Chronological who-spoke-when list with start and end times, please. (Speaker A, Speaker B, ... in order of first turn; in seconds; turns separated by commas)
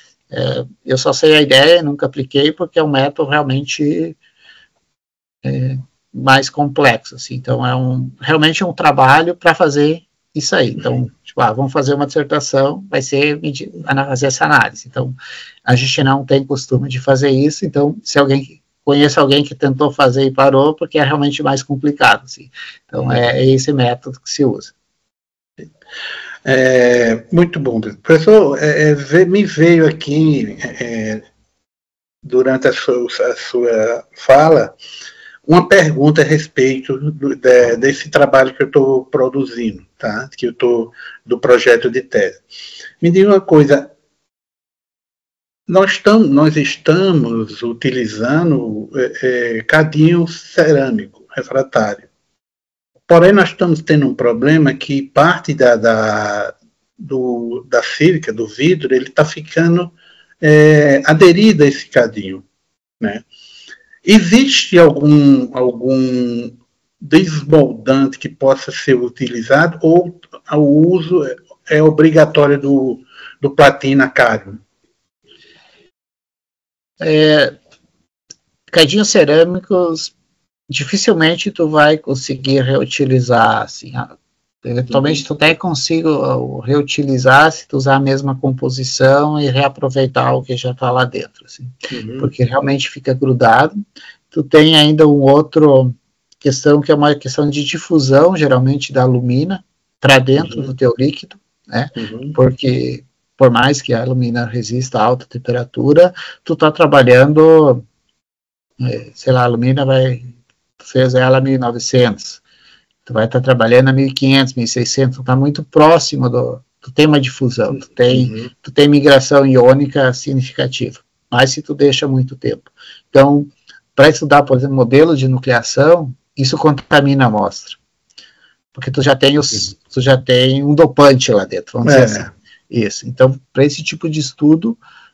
Speaker A: 0.3-4.2, Speaker A: 5.4-15.2, Speaker A: 15.7-24.7, Speaker B: 26.4-31.2, Speaker B: 32.2-34.8, Speaker B: 35.5-42.4, Speaker B: 43.0-43.9, Speaker B: 45.7-52.1, Speaker B: 53.1-62.5, Speaker B: 64.0-74.6, Speaker A: 77.0-77.6, Speaker A: 78.7-80.1, Speaker A: 80.7-84.1, Speaker A: 84.6-93.8, Speaker B: 84.9-85.2, Speaker B: 91.9-92.3, Speaker A: 94.3-107.8, Speaker B: 102.0-102.4, Speaker A: 108.8-112.4, Speaker A: 113.1-127.8, Speaker B: 118.2-118.5, Speaker A: 128.7-134.8, Speaker B: 131.8-132.3